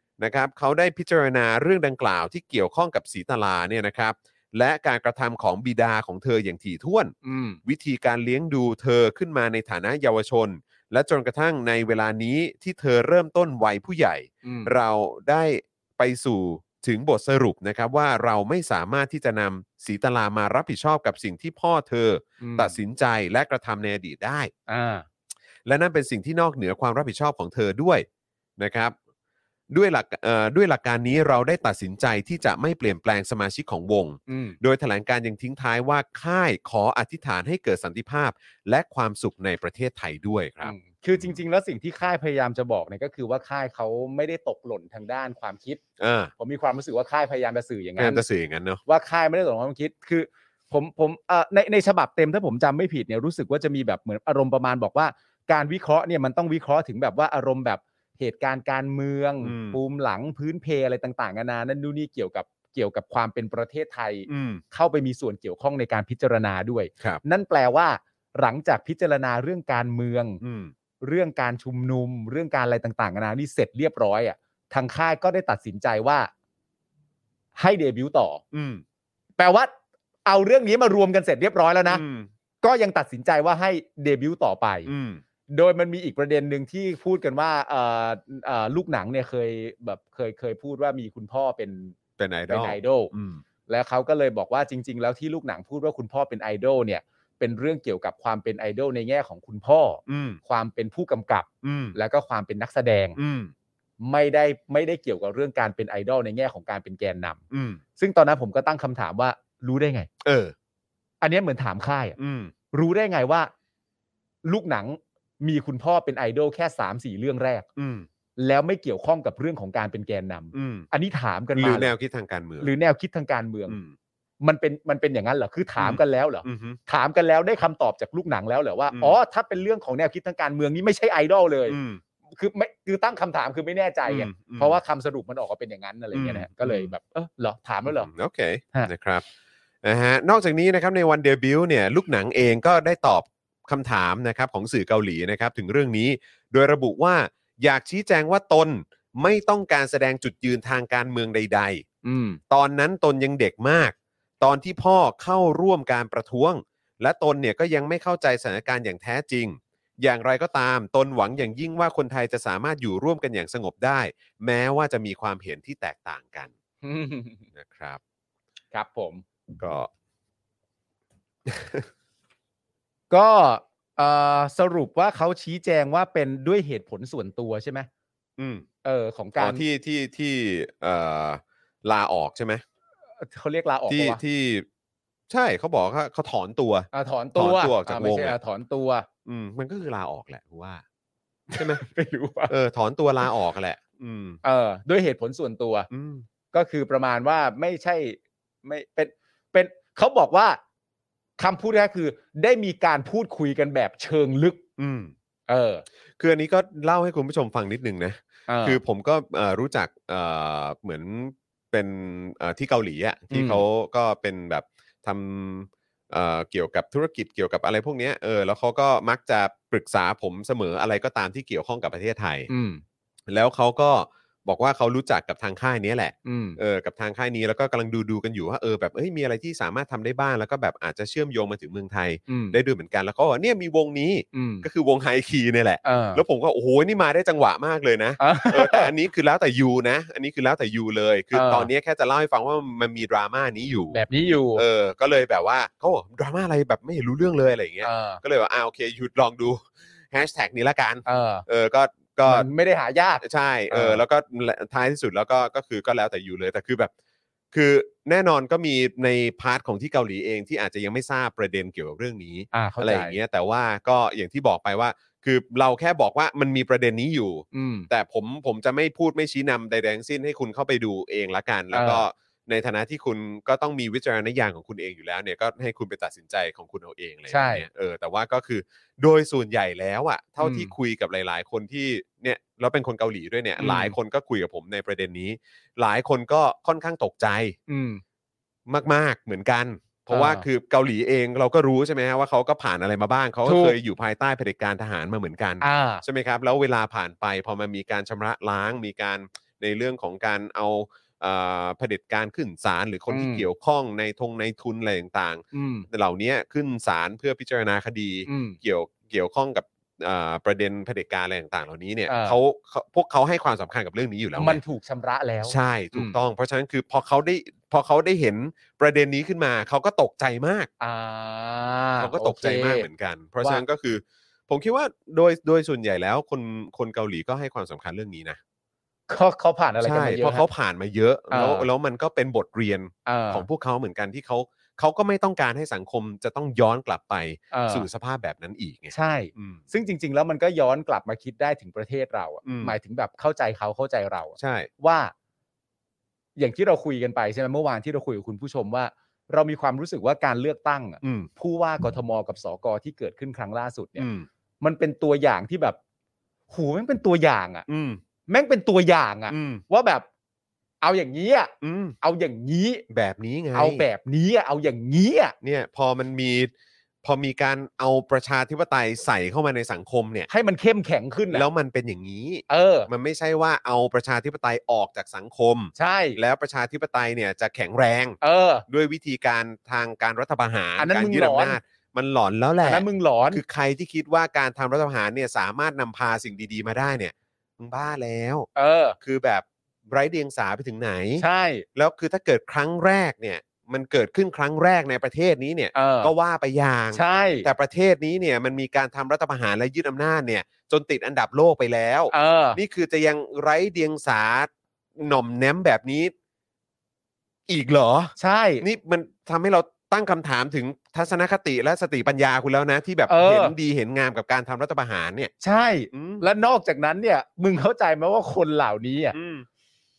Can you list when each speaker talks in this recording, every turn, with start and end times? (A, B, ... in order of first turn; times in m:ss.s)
0:00.2-0:24.5 A
0:07.2-0:07.6 B
0:14.4-0:14.7 B
0:22.4-0:22.8 B
0:24.7-0:25.0 B
0:25.6-0:28.1 A
0:28.6-0:29.0 A
0:29.7-0:41.4 A
0:34.3-0:34.6 B
0:40.6-0:45.8 B
0:46.0-0:46.3 A
0:46.4-0:48.2 B
0:48.0-0:48.8 A
0:48.9-1:10.4 B
0:59.4-0:59.8 A
1:04.3-1:04.6 A
1:10.4-1:10.7 A
1:11.0-1:16.3 B
1:17.6-1:18.4 B
1:18.5-1:18.8 A
1:19.4-1:19.7 B
1:20.3-1:22.0 B
1:21.9-1:22.3 A
1:22.6-1:24.9 B
1:24.9-1:25.2 A
1:25.5-1:32.0 B
1:32.2-1:33.4 A
1:32.5-1:33.1 B
1:33.7-1:43.2 B
1:40.1-1:40.4 A
1:41.6-1:42.0 A
1:43.2-1:43.5 A
1:44.0-1:47.4 B
1:47.5-1:47.8 A
1:48.0-1:50.1 B
1:50.2-1:50.5 A
1:51.2-1:52.2 B
1:52.2-1:52.5 A
1:52.7-1:53.5 B
1:54.4-1:57.7 B
1:57.8-1:58.1 A
1:58.4-2:01.9 B
2:00.5-2:00.9 A
2:01.6-2:02.7 A
2:02.6-2:03.8 B
2:03.7-2:04.0 A
2:04.4-2:11.8 B
2:05.8-2:06.8 A
2:08.9-2:09.2 A
2:11.7-2:12.0 A
2:12.3-2:18.1 B
2:14.1-2:14.8 A
2:16.1-2:16.9 A
2:17.9-2:19.2 A
2:19.8-2:31.8 A
2:32.0-2:32.4 B
2:32.5-2:46.5 A
2:46.8-2:47.4 B
2:47.5-2:48.0 A
2:48.7-2:49.2 B
2:49.6-2:49.9 A
2:51.5-2:51.9 A
2:53.1-2:57.9 B
2:58.4-2:58.7 A
2:58.8-2:59.6 B
2:59.4-3:02.6 A
3:03.2-3:04.2 B
3:03.9-3:04.7 A
3:05.3-3:08.4 A
3:06.9-3:09.1 B
3:09.3-3:10.8 A
3:11.5-3:12.5 B
3:11.6-3:11.8 A
3:12.5-3:14.4 A
3:14.4-3:15.9 B
3:15.9-3:16.3 A
3:16.5-3:20.6 B
3:21.4-3:24.6 B
3:24.8-3:25.1 A
3:25.5-3:25.8 B
3:26.2-3:42.5 A
3:28.5-3:28.8 B
3:33.3-3:33.6 B
3:42.5-3:42.8 B
3:43.3-4:12.5 A
3:46.2-3:46.6 B
3:52.3-3:52.6 B
3:54.3-3:54.7 B
3:55.8-3:56.2 B
3:58.2-3:58.9 B
4:01.3-4:01.7 B
4:03.9-4:04.6 B
4:07.8-4:08.2 B
4:11.0-4:11.5 B
4:12.2-4:14.0 B
4:13.2-4:16.9 A
4:17.5-4:47.6 A
4:22.5-4:23.2 B
4:27.5-4:27.9 B
4:31.7-4:32.0 B
4:37.3-4:37.6 B
4:40.4-4:40.7 B
4:43.6-4:44.0 B
4:47.7-4:48.0 B
4:48.7-5:14.6 A
4:50.1-4:50.5 B
4:53.4-4:53.8 B
4:55.6-4:56.0 B
5:03.1-5:03.5 B
5:05.5-5:05.9 B
5:08.3-5:08.6 B
5:12.1-5:12.4 B
5:14.4-5:16.2 B
5:15.4-5:20.7 A
5:20.8-5:22.9 B
5:22.0-5:28.4 A
5:29.1-5:30.4 B
5:29.8-5:39.6 A
5:31.3-5:31.7 B
5:33.1-5:33.5 B
5:37.5-5:37.9 B
5:38.9-5:45.1 B
5:42.4-5:42.8 A
5:44.4-5:44.7 A
5:46.4-5:54.1 B
5:51.0-5:51.3 A
5:54.0-5:54.3 A
5:54.6-5:55.8 B
5:56.5-5:57.7 B
5:57.7-5:58.0 A
5:58.3-6:00.1 B
5:59.3-5:59.6 A
6:00.8-6:02.8 B
6:01.6-6:02.0 A
6:02.9-6:03.8 A
6:03.6-6:05.4 B
6:05.4-6:06.5 A
6:07.0-6:10.3 A
6:10.3-6:11.5 B
6:11.3-6:28.5 A
6:12.5-6:12.9 B
6:15.8-6:16.2 B
6:18.2-6:18.6 B
6:20.8-6:21.6 B
6:22.6-6:23.4 B
6:28.6-6:29.0 B
6:29.0-6:46.1 A
6:31.2-6:31.6 B
6:35.7-6:36.1 B
6:36.9-6:37.5 B
6:42.1-6:42.6 B
6:47.5-6:55.3 A
6:48.2-6:48.6 B
6:53.1-6:53.6 B
6:55.4-6:59.2 B
6:55.9-6:56.2 A
6:59.1-6:59.5 A